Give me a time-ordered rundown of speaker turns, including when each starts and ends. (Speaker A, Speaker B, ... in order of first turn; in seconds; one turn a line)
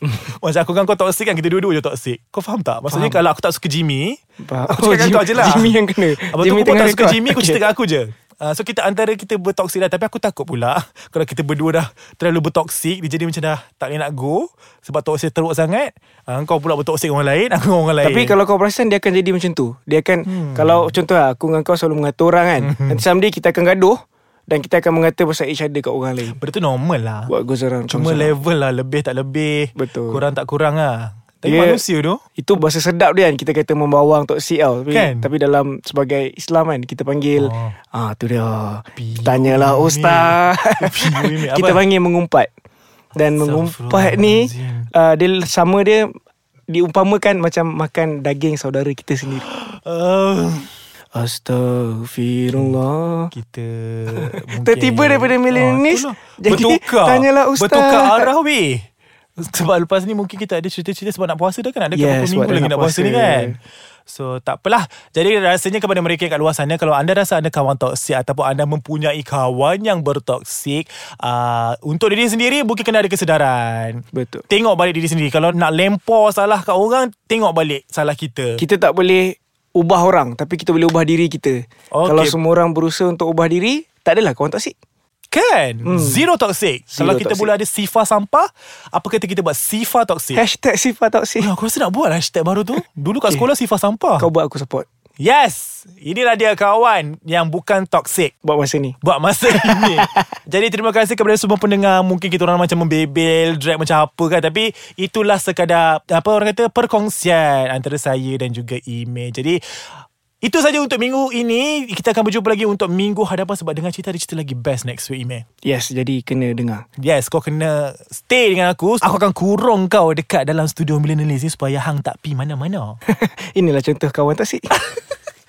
Speaker A: 0.2-4.2
Speaker B: 2.9-3.2
Speaker B: 4.4-7.7
Speaker A: 4.7-18.4
Speaker B: 18.0-26.4
Speaker A: 20.2-21.0
Speaker A: 22.6-23.0
Speaker A: 26.3-27.3
Speaker B: 27.3-28.4
Speaker A: 27.9-32.2
Speaker B: 29.8-30.2
Speaker B: 31.4-31.8
Speaker B: 32.4-42.5
Speaker A: 34.9-35.3
Speaker A: 37.4-37.8
Speaker A: 39.0-41.8
Speaker B: 43.1-46.1
Speaker A: 43.4-44.9
Speaker B: 46.7-49.5
Speaker A: 49.4-50.7
Speaker B: 51.1-53.3
Speaker A: 52.5-52.8
Speaker A: 53.3-58.8
Speaker B: 54.1-58.3
Speaker A: 59.4-63.6
Speaker B: 61.9-63.6
Speaker A: 64.1-78.6
Speaker B: 74.1-74.4
Speaker B: 78.6-84.7
Speaker A: 81.9-82.4
Speaker A: 85.3-90.4
Speaker B: 85.8-86.2
Speaker B: 86.9-87.5
Speaker B: 90.3-91.5
Speaker A: 91.4-94.3
Speaker B: 94.2-94.9
Speaker A: 95.2-98.3
Speaker B: 98.4-99.0
Speaker A: 99.0-109.6
Speaker B: 99.5-100.2
Speaker A: 110.4-115.5
Speaker B: 115.6-116.9
Speaker A: 117.0-123.0
Speaker B: 123.1-124.7